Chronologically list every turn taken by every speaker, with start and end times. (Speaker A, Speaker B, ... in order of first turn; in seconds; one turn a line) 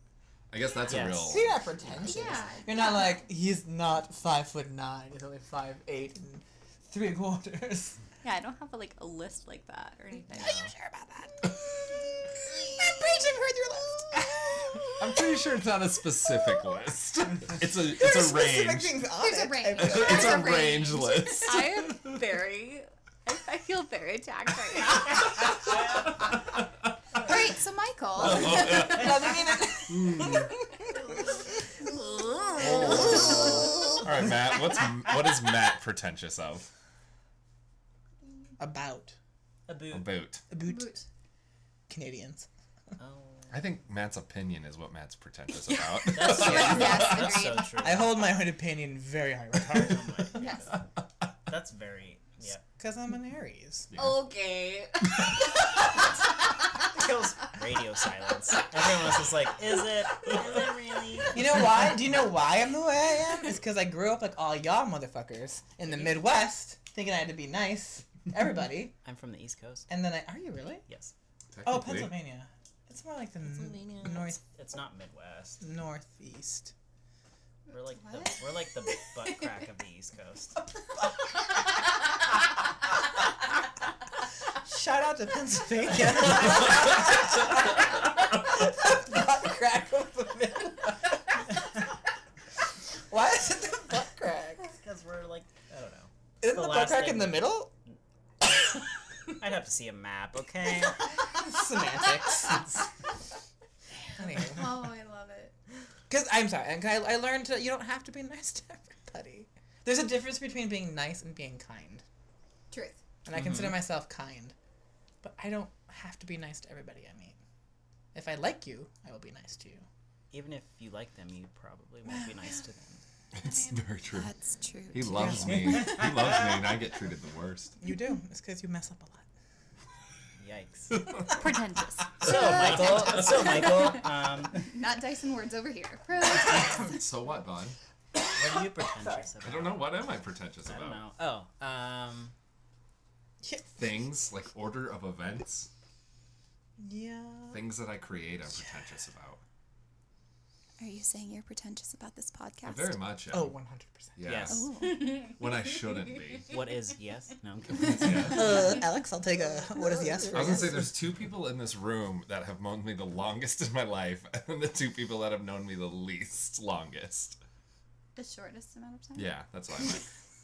Speaker A: 0.5-1.6
Speaker B: 0.8-1.4
Speaker C: 1.2-8.0
Speaker D: 2.0-3.2
Speaker E: 8.2-10.6
Speaker B: 10.4-10.7
Speaker C: 10.9-11.6
Speaker D: 12.7-14.9
Speaker C: 12.7-14.9
Speaker A: 15.0-19.0
Speaker C: 17.8-20.4
Speaker D: 19.1-21.5
Speaker A: 19.8-22.1
Speaker E: 21.4-25.3
Speaker D: 27.1-29.3
Speaker A: 28.2-29.2
Speaker C: 28.2-30.5
Speaker A: 29.9-30.5
Speaker E: 31.9-33.3
Speaker A: 32.6-36.7
Speaker C: 32.8-33.5
Speaker C: 38.6-39.1
Speaker B: 39.7-40.2
Speaker A: 39.9-40.4
Speaker C: 40.5-41.0
Speaker D: 40.6-41.0
Speaker C: 41.9-42.5
Speaker B: 43.0-43.6
Speaker A: 43.5-47.4
Speaker D: 46.0-47.6
Speaker B: 46.1-48.2
Speaker E: 46.4-47.4
Speaker C: 46.4-47.0
Speaker C: 47.8-50.4
Speaker B: 49.7-50.7
Speaker D: 50.4-50.6
Speaker B: 51.5-52.6
Speaker C: 52.8-53.9
Speaker A: 53.9-54.2
Speaker E: 53.9-55.8
Speaker B: 56.9-61.6
Speaker C: 61.3-69.0
Speaker B: 69.0-69.9
Speaker C: 69.9-70.8
Speaker B: 70.9-71.1
Speaker A: 71.5-72.2
Speaker C: 71.6-74.4
Speaker B: 73.4-75.6
Speaker C: 75.6-76.7
Speaker D: 77.7-79.3
Speaker B: 77.7-80.6
Speaker C: 84.6-91.9
Speaker C: 93.1-94.7
Speaker B: 94.6-97.9
Speaker C: 96.4-97.7
Speaker B: 99.3-101.1
Speaker C: 101.2-102.7
Speaker C: 104.2-104.9
Speaker D: 104.3-105.5
Speaker C: 106.1-112.0
Speaker D: 112.7-113.0
Speaker C: 113.2-114.5
Speaker B: 113.3-113.8
Speaker C: 115.2-117.4
Speaker C: 118.1-119.8
Speaker B: 120.3-123.0
Speaker A: 123.3-124.3
Speaker D: 124.1-125.7
Speaker A: 124.9-127.8
Speaker C: 125.1-125.8
Speaker C: 127.8-129.3
Speaker B: 130.4-131.1
Speaker A: 131.0-131.4
Speaker E: 131.3-132.3
Speaker B: 132.2-134.8
Speaker D: 132.8-133.4
Speaker D: 134.5-137.0
Speaker A: 136.3-137.8
Speaker B: 138.3-140.0
Speaker A: 139.4-141.0
Speaker B: 140.6-142.3
Speaker C: 143.4-143.7
Speaker A: 143.7-145.7
Speaker C: 146.8-147.6
Speaker A: 147.5-149.4
Speaker D: 150.8-153.1
Speaker A: 152.6-153.6
Speaker C: 153.3-154.2
Speaker A: 154.2-156.5
Speaker B: 154.2-154.7
Speaker D: 154.5-155.3
Speaker B: 156.5-158.5
Speaker A: 157.8-158.6
Speaker C: 158.2-160.9
Speaker A: 160.3-167.4
Speaker D: 168.2-169.3
Speaker A: 169.2-170.1